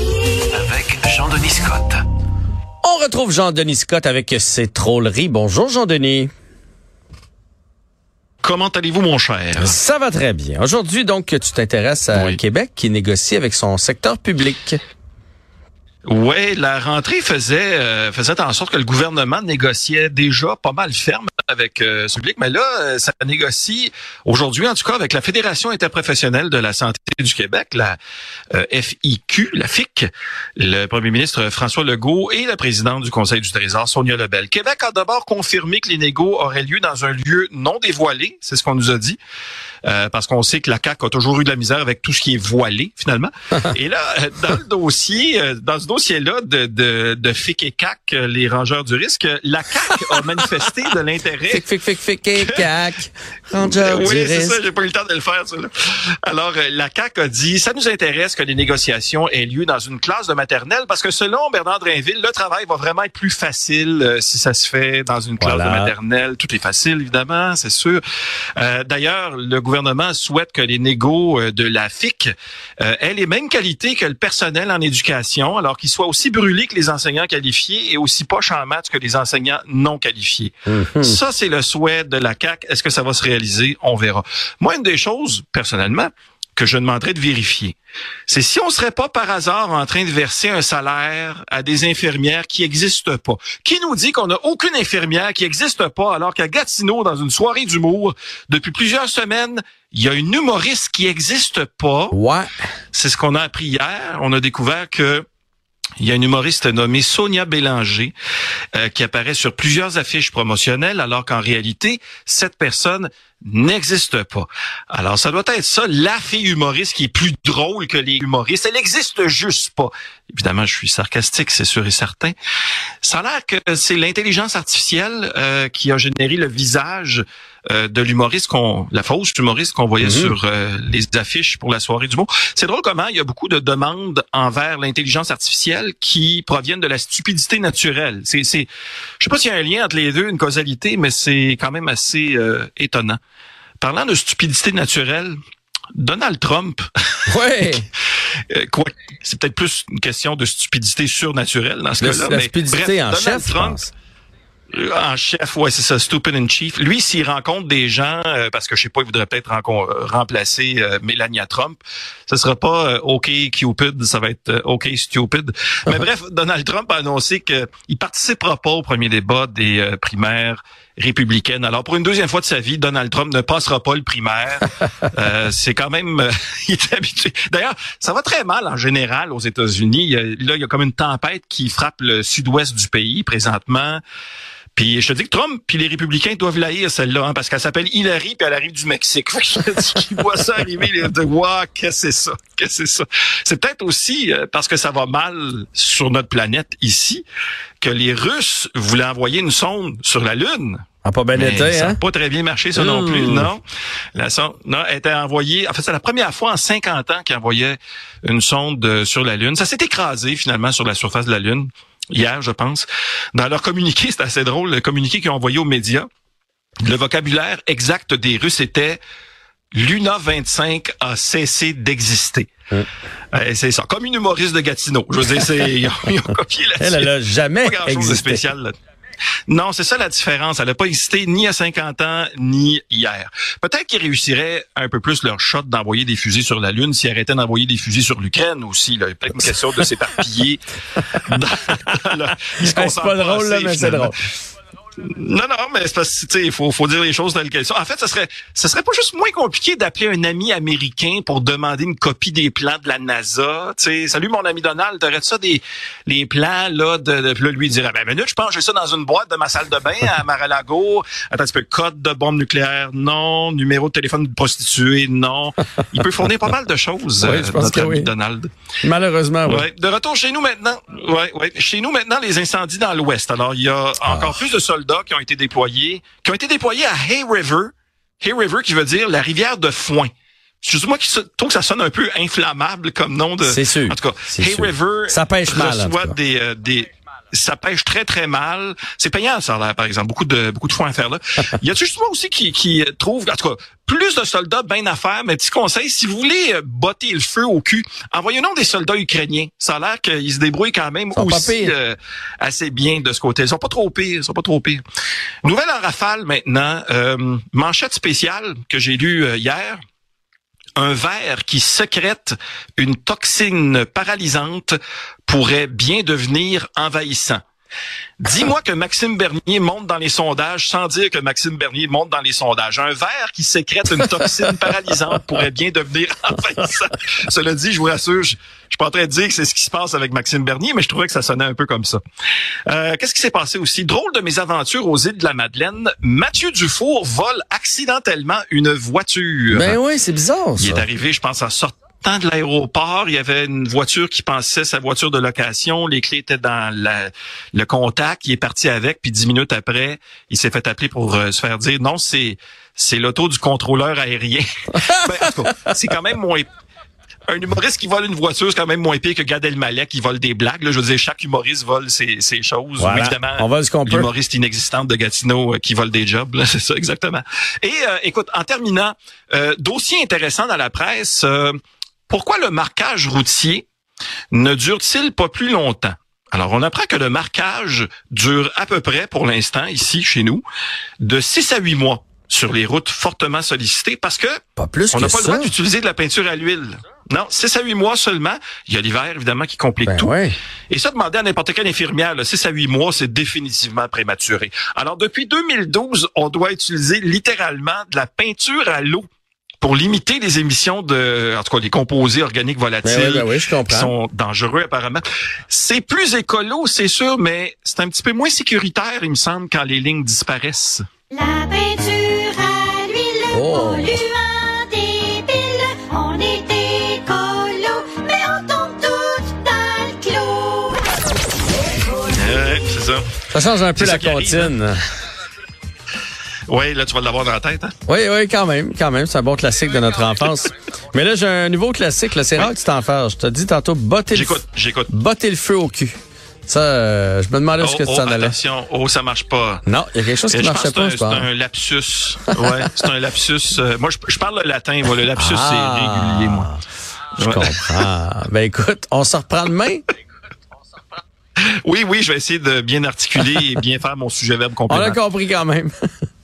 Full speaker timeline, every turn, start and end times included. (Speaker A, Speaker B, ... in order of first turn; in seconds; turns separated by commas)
Speaker A: 0.5-2.0, Speaker B: 2.8-6.3, Speaker A: 8.4-9.8, Speaker B: 9.6-14.8, Speaker A: 12.1-12.4, Speaker A: 16.1-28.0, Speaker A: 28.5-39.2, Speaker A: 39.9-51.6, Speaker B: 51.5-54.6, Speaker A: 52.4-52.6, Speaker A: 53.6-55.7, Speaker A: 56.2-68.0, Speaker B: 65.4-65.9, Speaker A: 68.6-87.8, Speaker B: 80.7-81.2, Speaker A: 88.3-102.2, Speaker B: 102.1-102.5, Speaker A: 102.9-105.2, Speaker A: 106.0-108.1, Speaker A: 108.7-122.3, Speaker A: 123.0-138.7, Speaker B: 130.0-130.3, Speaker A: 139.2-143.2, Speaker A: 143.8-145.4, Speaker A: 145.9-146.8, Speaker B: 147.3-147.9, Speaker A: 148.5-153.8, Speaker B: 152.0-153.9, Speaker A: 154.7-184.0, Speaker A: 184.8-197.2, Speaker A: 197.8-200.8, Speaker B: 201.0-202.0, Speaker A: 201.4-203.6, Speaker B: 202.8-203.5, Speaker A: 204.2-216.1, Speaker A: 216.8-219.0, Speaker A: 219.7-222.5, Speaker A: 223.3-227.1, Speaker B: 226.8-228.5, Speaker A: 227.6-228.7, Speaker A: 229.5-240.6, Speaker A: 241.3-244.1, Speaker B: 242.6-244.2, Speaker A: 245.1-268.5, Speaker B: 267.2-268.1, Speaker B: 268.8-269.7, Speaker A: 269.5-280.1, Speaker B: 274.1-274.4, Speaker A: 280.6-304.8, Speaker B: 283.4-286.2, Speaker B: 301.1-301.7, Speaker A: 305.4-309.8, Speaker A: 310.8-317.4, Speaker A: 318.2-332.0, Speaker A: 332.7-339.8, Speaker B: 339.5-340.9, Speaker A: 340.6-356.5, Speaker B: 354.8-355.6, Speaker A: 357.3-371.6, Speaker B: 362.8-364.1, Speaker A: 372.1-373.7, Speaker A: 374.3-380.4, Speaker A: 381.0-384.4, Speaker B: 384.6-385.5, Speaker A: 384.9-390.1, Speaker B: 389.8-390.4, Speaker A: 390.7-399.1, Speaker A: 399.6-410.8, Speaker B: 402.8-403.9, Speaker C: 411.1-420.9, Speaker B: 413.3-414.0, Speaker A: 422.1-423.1, Speaker B: 423.3-424.8, Speaker A: 423.8-424.5, Speaker A: 426.5-427.8, Speaker B: 427.9-435.9, Speaker A: 434.1-434.9, Speaker B: 436.5-438.4, Speaker A: 437.6-439.6, Speaker B: 439.6-441.3, Speaker A: 440.3-446.5, Speaker B: 445.2-446.6, Speaker B: 447.2-449.9, Speaker A: 447.2-447.8, Speaker A: 451.6-455.0, Speaker B: 454.7-455.7